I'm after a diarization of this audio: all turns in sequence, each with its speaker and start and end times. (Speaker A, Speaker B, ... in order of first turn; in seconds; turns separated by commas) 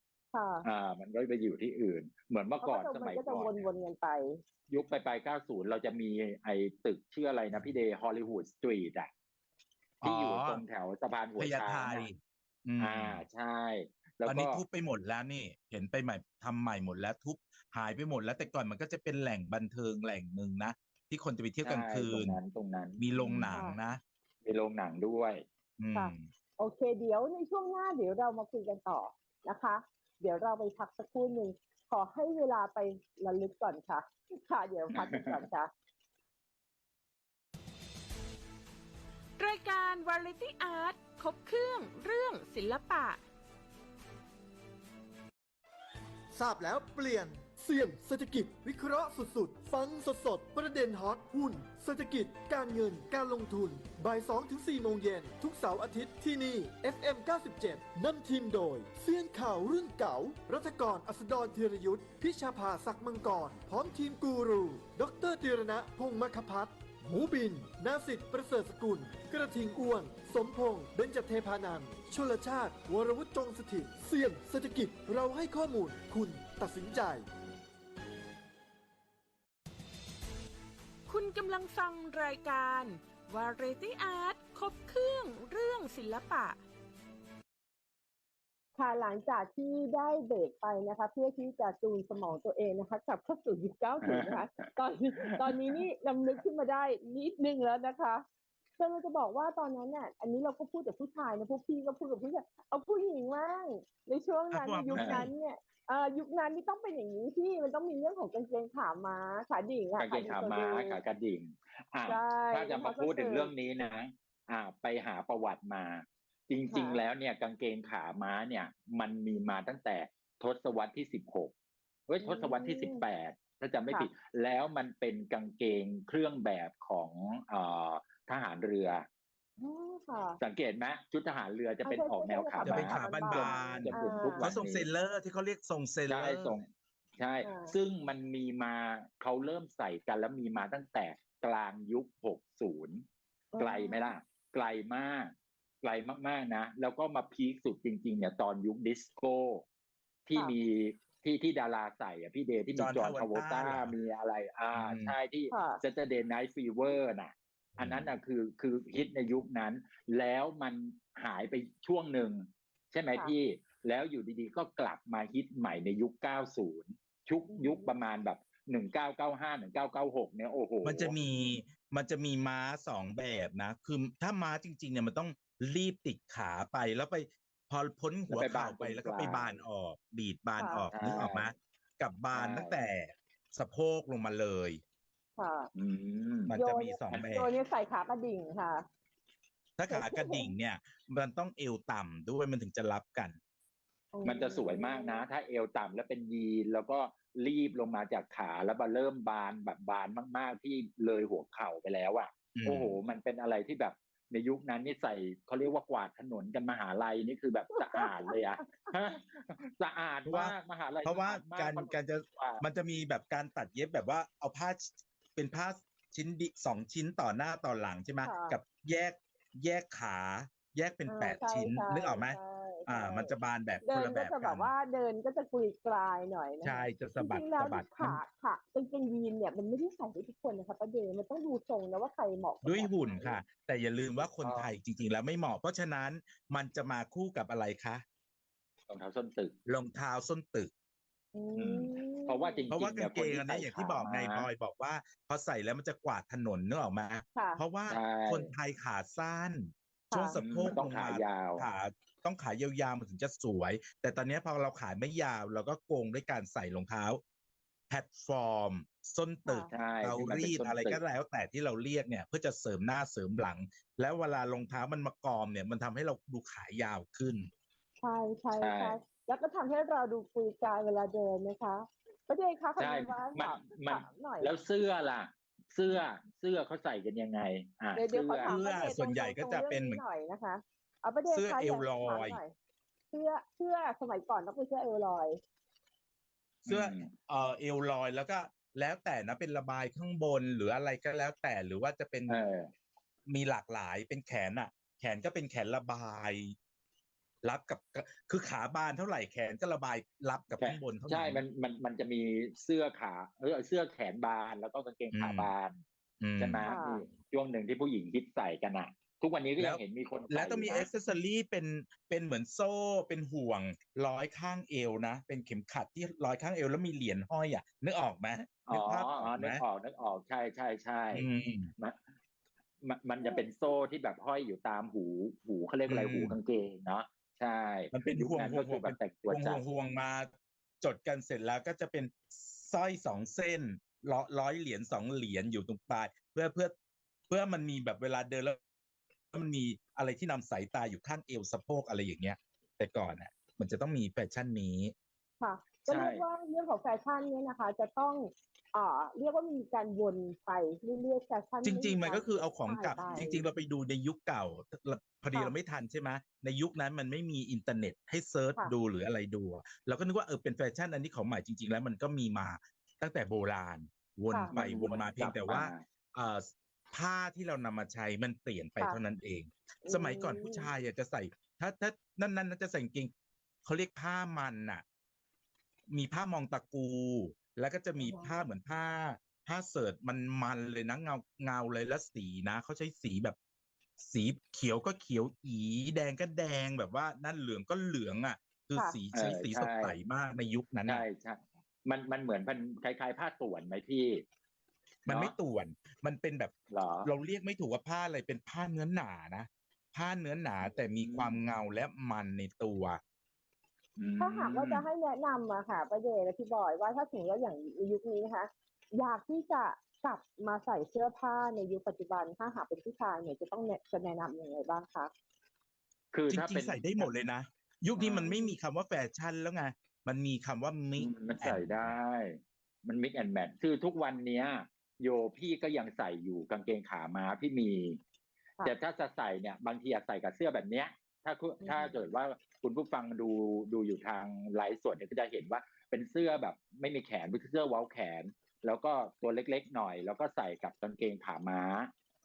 Speaker A: 0.3-0.7, Speaker B: 0.6-3.7, Speaker A: 2.6-4.4, Speaker B: 4.7-9.1, Speaker C: 10.0-10.6, Speaker B: 10.0-12.1, Speaker C: 11.4-13.2, Speaker B: 12.8-14.6, Speaker C: 14.2-22.4, Speaker B: 21.6-23.5, Speaker C: 23.0-24.0, Speaker B: 24.4-25.4, Speaker C: 25.8-26.3, Speaker A: 25.9-35.7, Speaker B: 34.9-35.4, Speaker D: 39.4-43.2, Speaker E: 46.3-77.2, Speaker D: 81.1-86.6, Speaker A: 88.8-98.2, Speaker B: 94.0-94.7, Speaker B: 95.2-95.8, Speaker A: 98.8-111.0, Speaker C: 104.5-105.3, Speaker B: 105.0-105.3, Speaker B: 110.0-121.5, Speaker A: 112.0-113.5, Speaker A: 116.7-117.0, Speaker B: 122.1-129.1, Speaker A: 122.2-123.0, Speaker A: 129.6-130.4, Speaker B: 130.4-134.9, Speaker A: 131.8-134.5, Speaker C: 132.6-136.6, Speaker B: 136.1-143.0, Speaker A: 137.4-137.7, Speaker A: 143.5-144.1, Speaker B: 143.6-149.6, Speaker B: 150.2-171.1, Speaker C: 152.8-153.9, Speaker C: 154.7-155.1, Speaker A: 155.5-155.8, Speaker C: 157.8-158.1, Speaker A: 167.5-167.9, Speaker C: 170.8-184.8, Speaker B: 178.3-179.6, Speaker A: 180.6-180.9, Speaker B: 180.9-181.5, Speaker B: 182.3-182.8, Speaker A: 185.4-185.7, Speaker B: 185.7-186.5, Speaker C: 186.5-187.5, Speaker A: 186.5-188.8, Speaker C: 189.8-193.4, Speaker A: 189.9-190.5, Speaker A: 194.1-195.2, Speaker B: 194.2-212.6, Speaker C: 202.5-202.9, Speaker A: 207.8-208.7, Speaker C: 210.2-224.7, Speaker A: 218.2-218.6, Speaker A: 221.1-223.3, Speaker A: 223.8-233.3, Speaker C: 226.6-228.2, Speaker C: 232.6-238.0, Speaker B: 234.4-234.7, Speaker B: 238.9-239.6, Speaker C: 239.7-240.7, Speaker A: 241.3-242.7, Speaker B: 241.6-244.5, Speaker C: 242.7-257.2, Speaker A: 247.3-247.6, Speaker B: 247.9-248.5, Speaker A: 250.1-250.4, Speaker B: 250.3-251.6, Speaker C: 257.9-267.5, Speaker B: 259.7-261.0, Speaker A: 268.0-274.5, Speaker B: 268.6-269.0, Speaker B: 272.8-278.5, Speaker A: 277.9-282.5, Speaker C: 278.4-280.0, Speaker C: 281.3-282.4, Speaker A: 283.1-285.4, Speaker C: 286.6-292.4, Speaker B: 286.6-287.1, Speaker B: 292.3-292.7, Speaker C: 293.3-296.6, Speaker C: 297.4-301.4, Speaker B: 300.6-305.8, Speaker C: 305.1-305.5, Speaker C: 306.2-306.6, Speaker B: 306.4-310.9, Speaker A: 306.6-307.0, Speaker C: 309.6-319.6, Speaker B: 318.7-322.0, Speaker C: 321.1-321.7, Speaker B: 322.8-329.6, Speaker C: 325.9-326.4, Speaker C: 327.9-336.7, Speaker C: 337.3-338.6, Speaker C: 339.3-344.9, Speaker A: 345.4-353.4, Speaker B: 345.9-346.2, Speaker C: 351.6-373.1, Speaker A: 364.3-364.6, Speaker B: 364.5-365.8, Speaker A: 369.8-370.7, Speaker C: 373.6-374.8, Speaker C: 375.9-383.4, Speaker A: 378.0-378.3, Speaker C: 384.0-391.0, Speaker B: 389.1-390.0, Speaker B: 390.9-394.2, Speaker B: 395.0-395.3, Speaker C: 395.1-403.0, Speaker B: 396.7-397.1, Speaker B: 400.6-401.4, Speaker B: 404.0-404.9, Speaker A: 404.2-415.1, Speaker B: 416.1-417.1, Speaker C: 416.3-421.9, Speaker B: 418.0-418.3, Speaker A: 418.2-418.5, Speaker B: 421.0-428.0, Speaker B: 428.6-441.9, Speaker A: 431.6-431.9